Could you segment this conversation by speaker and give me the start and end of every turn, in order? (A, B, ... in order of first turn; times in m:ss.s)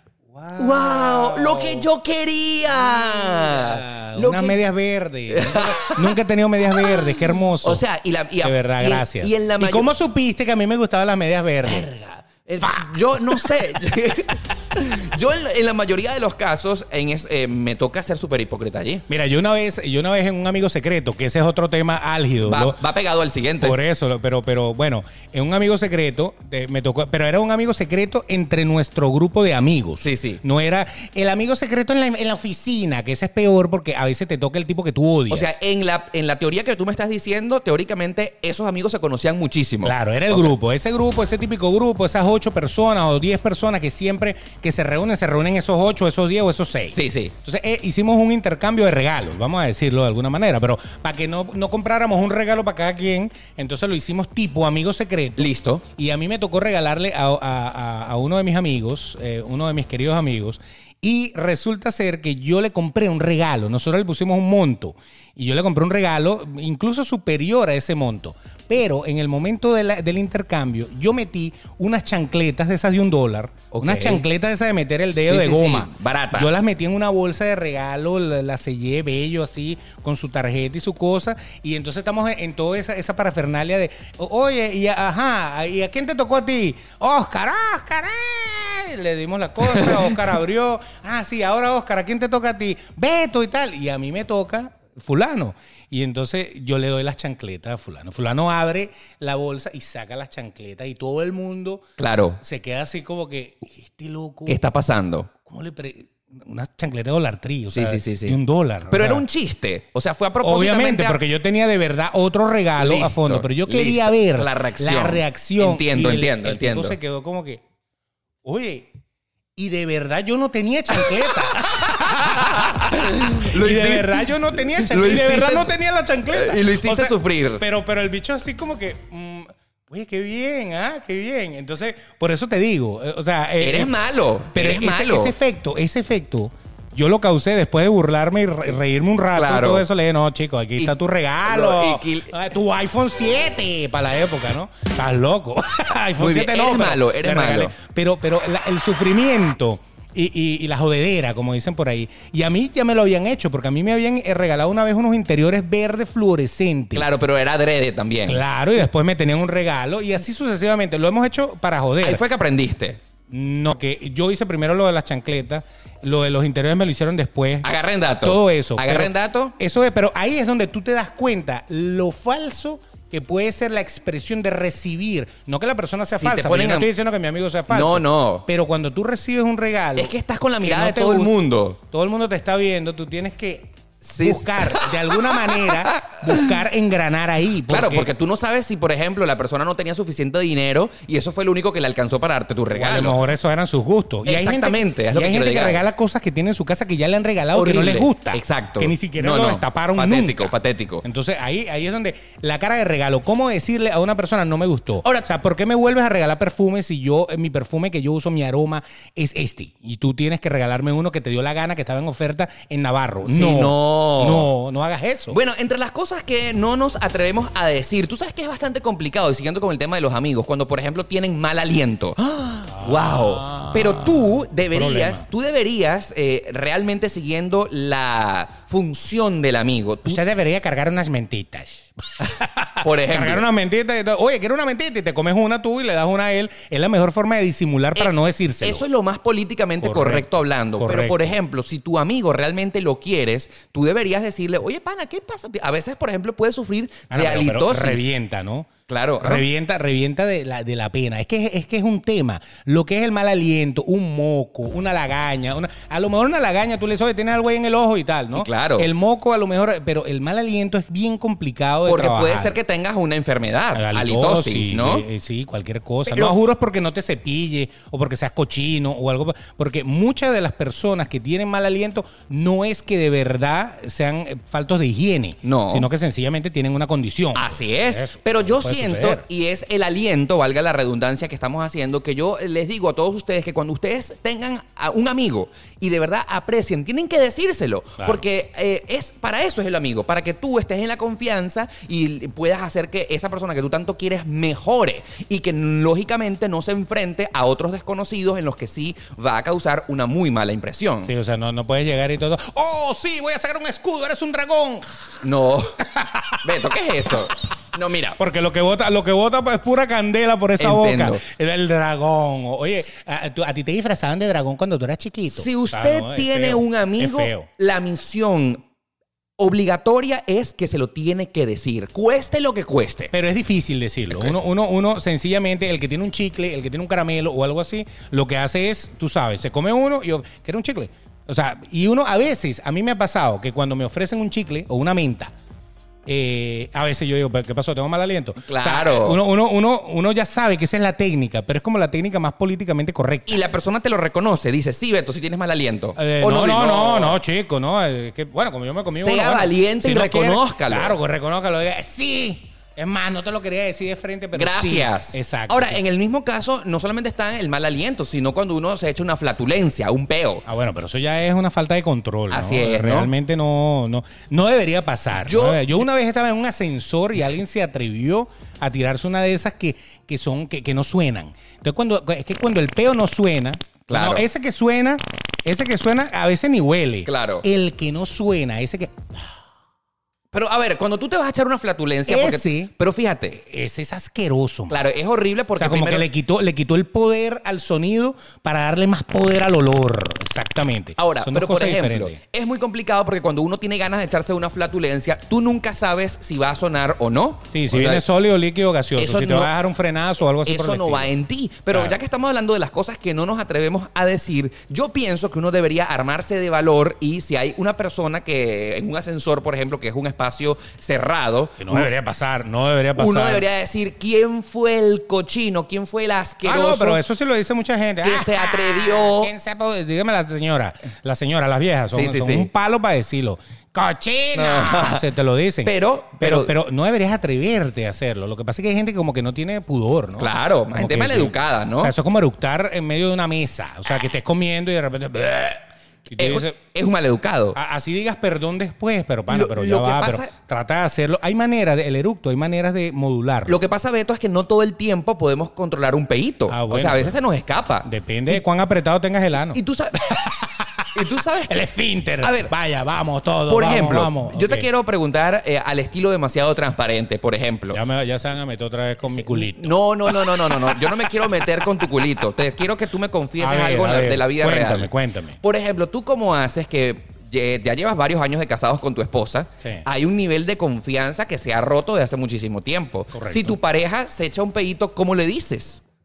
0:00.3-0:01.9 A
0:00.6-0:04.6 B
0:02.8-0:07.8 A
0:05.3-0:06.2 B
0:06.7-0:09.9 B
0:08.4-0:11.9 A
0:11.6-0:19.0 B
0:12.6-0:13.5 A
0:19.1-0:22.8 A
0:22.4-0:23.8 B
0:23.6-0:35.6 A
0:30.0-0:30.4 B
0:35.3-0:40.5 B
0:39.8-1:41.9 A
0:46.9-0:47.3 B
0:55.4-0:55.8 B
1:13.7-1:14.2 B
1:15.1-1:16.7 B
1:29.7-1:30.2 B
1:42.0-1:42.4 B
1:42.4-1:44.6 A
1:44.5-1:45.3 B
1:45.4-1:49.2 A
1:47.7-1:48.4 B
1:48.9-1:51.2 B
1:50.4-1:57.6 A
1:52.8-1:57.0 B
1:58.4-1:58.9 A
1:59.6-2:13.9 A
2:01.0-2:05.7 B
2:06.3-2:07.6 B
2:13.6-2:15.3 B
2:14.5-2:37.2 A
2:19.3-2:19.9 B
2:20.8-2:22.4 B
2:26.2-2:27.7 B
2:36.9-2:38.4 B
2:38.3-2:42.2 A
2:42.0-2:43.0 B
2:43.3-2:47.7 A
2:47.6-2:49.6 B
2:48.2-3:01.3 A
2:56.1-2:56.9 B
2:57.7-2:58.4 B
3:00.0-3:01.8 B
3:01.9-3:08.1 A
3:04.0-3:06.5 B
3:07.7-3:13.2 B
3:12.7-3:35.4 A
3:14.3-3:15.8 B
3:17.5-3:21.0 B
3:33.2-3:34.5 B
3:35.3-3:50.2 B
3:42.7-3:45.2 A
3:50.0-3:58.8 A
3:52.8-3:53.4 B
3:58.0-4:08.0 B
3:59.8-4:01.3 A
4:07.1-4:08.7 A
4:08.9-4:09.4 B
4:09.2-4:22.6 A
4:18.3-4:18.9 B
4:21.9-4:25.0 B
4:23.7-4:39.2 A
4:26.0-4:26.4 B
4:35.4-4:35.9 B
4:37.3-5:01.1 B
5:01.0-5:04.9 A
5:05.2-5:05.7 B
5:05.9-5:06.4 A
5:06.4-5:08.2 B
5:08.2-5:17.5 A
5:10.6-5:11.2 B
5:15.3-5:18.6 B
5:19.4-5:23.1 B
5:23.1-5:35.3 A
5:36.1-5:43.4 A
5:38.4-5:39.2 B
5:43.3-5:47.2 B
5:46.0-5:55.8 A
5:48.9-5:51.0 B
5:54.3-6:00.4 B
6:00.4-6:19.3 A
6:02.3-6:03.1 B
6:05.3-6:05.9 B
6:13.9-6:14.3 B
6:17.0-6:17.4 B
6:20.3-6:23.4 B
6:22.1-6:22.7 A
6:23.4-6:24.8 A
6:24.7-6:26.0 B
6:25.6-6:32.2 A
6:31.0-6:38.0 B
6:37.5-6:41.1 A
6:39.0-6:39.5 B
6:40.4-6:51.9 B
6:41.7-6:42.0 A
6:51.6-6:53.4 A
6:53.0-6:57.0 B
6:56.4-7:16.6 A
6:58.0-6:59.3 B
7:01.9-7:02.5 B
7:04.3-7:05.0 B
7:05.6-7:06.5 B
7:10.2-7:11.9 B
7:16.2-7:17.6 B
7:17.5-7:23.6 A
7:19.3-7:20.3 B
7:23.5-7:28.4 B
7:26.5-7:27.2 A
7:27.8-7:29.6 A
7:29.3-7:30.3 B
7:30.1-7:30.9 A
7:31.0-7:31.6 B
7:31.5-7:34.7 A
7:32.2-7:32.5 B
7:33.5-7:37.8 B
7:37.7-7:42.0 A
7:39.1-7:44.9 B
7:43.4-7:45.4 A
7:45.4-7:55.8 B
7:53.1-7:53.6 A